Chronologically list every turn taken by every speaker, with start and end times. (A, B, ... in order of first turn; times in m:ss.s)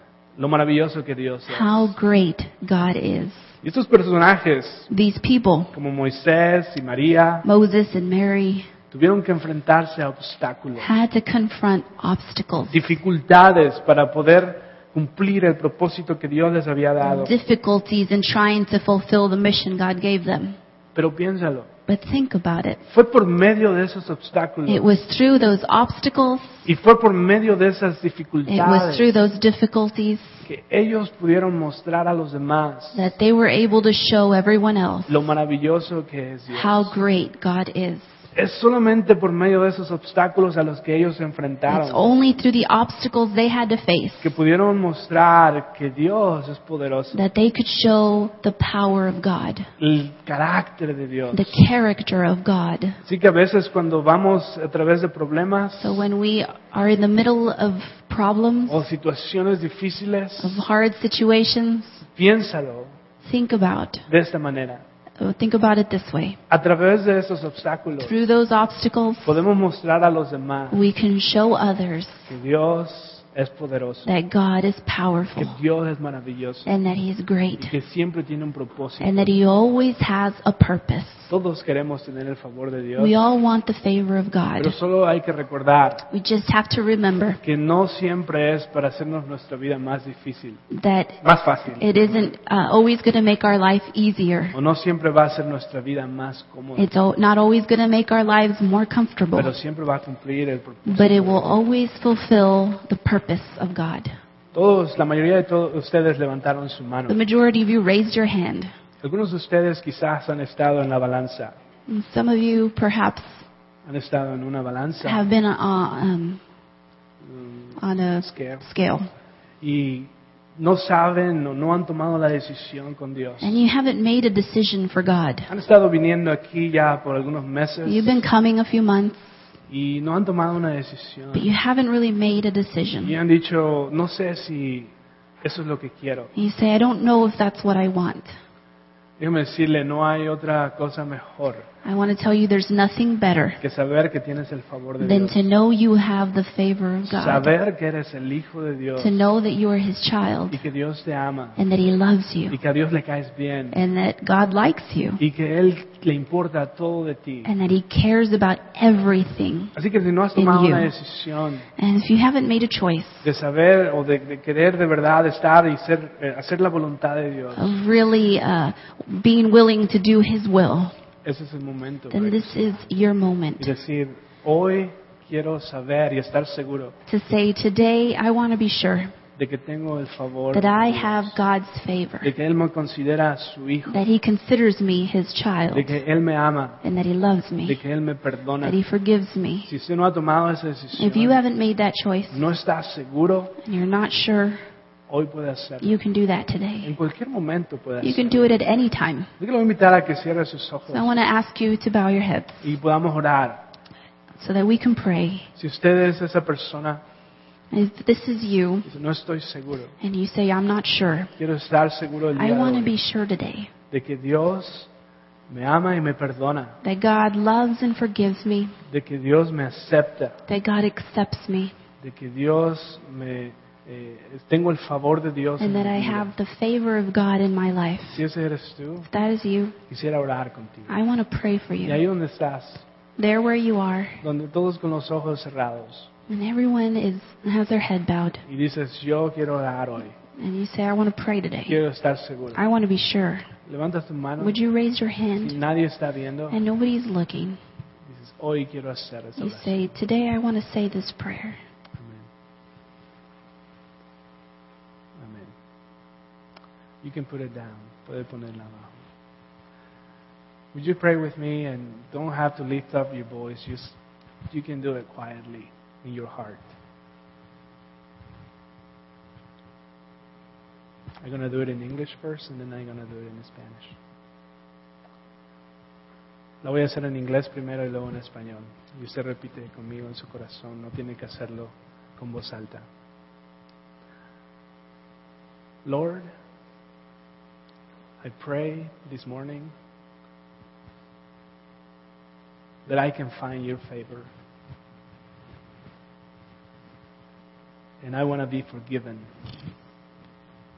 0:00.4-0:01.9 A
0:01.5-0:03.5 B
0:03.6-0:04.9 A
0:04.9-0:05.7 B
0:05.7-0:07.5 A
0:07.4-0:08.7 B
0:08.9-0:10.9 A
0:10.8-0:12.9 B
0:12.7-0:17.3 A
0:17.0-0:20.6 B
0:20.9-0:21.7 A
0:21.9-0:22.8 B
0:22.8-0:24.8 A
0:24.7-0:26.6 B
0:26.6-0:29.1 A
0:28.5-0:30.4 B
0:30.4-0:33.1 A
0:32.9-0:35.2 B
0:35.1-0:37.0 A
0:36.5-0:38.2 B
0:38.3-0:42.1 A
0:41.7-0:44.3 B
0:44.2-0:47.2 A
0:47.1-0:49.7 B
0:49.8-0:51.5 A
0:51.3-0:53.0 B
0:53.0-0:56.0 A
0:55.8-0:58.8 B
0:58.7-1:00.6 A
1:00.4-1:02.0 B
1:02.0-1:03.0 A
1:03.2-1:04.0 B
1:04.1-1:04.8 A
1:05.2-1:06.4 B
1:06.5-1:08.1 A
1:08.0-1:09.4 B
1:09.2-1:10.8 A
1:10.7-1:12.3 B
1:12.3-1:14.1 A
1:14.0-1:15.6 B
1:15.4-1:16.7 A
1:16.6-1:17.7 B
1:17.6-1:19.3 A
1:19.0-1:21.3 B
1:21.3-1:23.1 A
1:23.0-1:24.8 B
1:24.6-1:26.0 A
1:26.1-1:27.4 B
1:27.4-1:30.6 A
1:30.7-1:31.2 B
1:31.2-1:32.3 A
1:31.8-1:34.5 B
1:34.5-1:36.9 A
1:36.8-1:39.5 B
1:39.4-1:41.6 A
1:40.8-1:44.1 B
1:44.5-1:47.2 A
1:47.1-1:48.7 B
1:49.0-1:51.5 A
1:51.9-1:53.4 B
1:53.8-1:55.2 A
1:55.0-1:56.4 B
1:57.2-1:58.6 A
1:57.8-1:59.1 B
1:59.6-2:03.6 A
2:03.4-2:05.5 B
2:05.5-2:08.2 A
2:07.8-2:09.4 B
2:09.7-2:11.5 A
2:11.3-2:13.2 B
2:13.0-2:16.3 A
2:16.3-2:18.3 B
2:19.2-2:21.7 A
2:21.8-2:23.6 B
2:23.6-2:25.4 A
2:25.0-2:27.5 B
2:27.0-2:29.2 A
2:29.0-2:30.6 B
2:30.5-2:31.6 A
2:31.6-2:32.6 B
2:32.5-2:33.8 A
2:33.7-2:35.2 B
2:35.2-2:37.5 A
2:37.4-2:39.7 B
2:39.7-2:41.6 A
2:40.4-2:40.9 B
2:41.8-2:43.3 B
2:43.2-2:47.7 A
2:47.6-2:50.9 B
2:51.2-2:52.8 A
2:52.1-2:53.7 B
2:53.6-2:57.0 A
2:57.1-2:59.1 B
2:59.4-3:01.4 A
3:00.5-3:02.3 B
3:02.2-3:04.0 A
3:03.9-3:06.0 B
3:05.7-3:06.8 A
3:06.8-3:07.8 B
3:07.6-3:08.8 A
3:08.6-3:09.7 B
3:09.7-3:11.4 A
3:11.0-3:12.4 B
3:12.3-3:13.6 A
3:13.6-3:14.6 B
3:15.1-3:15.9 A
3:15.8-3:16.9 B
3:16.8-3:18.5 A
3:18.0-3:19.3 B
3:19.4-3:21.1 A
3:20.9-3:22.7 B
3:22.6-3:23.6 A
3:24.3-3:25.5 B
3:25.5-3:27.0 A
3:27.7-3:28.8 B
3:28.8-3:29.9 A
3:30.0-3:31.3 B
3:31.4-3:32.9 A
3:32.4-3:33.7 B
3:33.9-3:34.9 A
3:35.5-3:36.8 A
3:36.8-3:38.8 B
3:38.9-3:40.4 A
3:40.5-3:41.7 B
3:42.0-3:46.3 A
3:45.6-3:48.2 B
3:48.1-3:49.1 A
3:49.1-3:49.8 B
3:49.9-3:50.9 A
3:50.9-3:52.0 B
3:51.8-3:52.8 A
3:53.2-3:54.2 B
3:54.2-3:56.1 A
3:56.3-3:58.4 B
3:58.4-4:00.2 A
4:00.3-4:01.8 B
4:01.7-4:02.6 A
4:02.5-4:03.4 B
4:03.7-4:04.6 A
4:04.4-4:05.6 B
4:05.4-4:06.6 A
4:06.5-4:07.6 B
4:08.1-4:09.8 A
4:09.4-4:11.6 B
4:12.0-4:12.3 A
4:15.2-4:15.5 A
4:17.0-4:19.0 A
4:20.7-4:24.0 A
4:24.5-4:26.7 A
4:31.2-4:34.0 A
4:36.6-4:42.9 A
4:45.8-4:46.3 A
4:48.2-4:49.7 A
4:52.8-4:54.3 A
4:58.0-4:59.3 A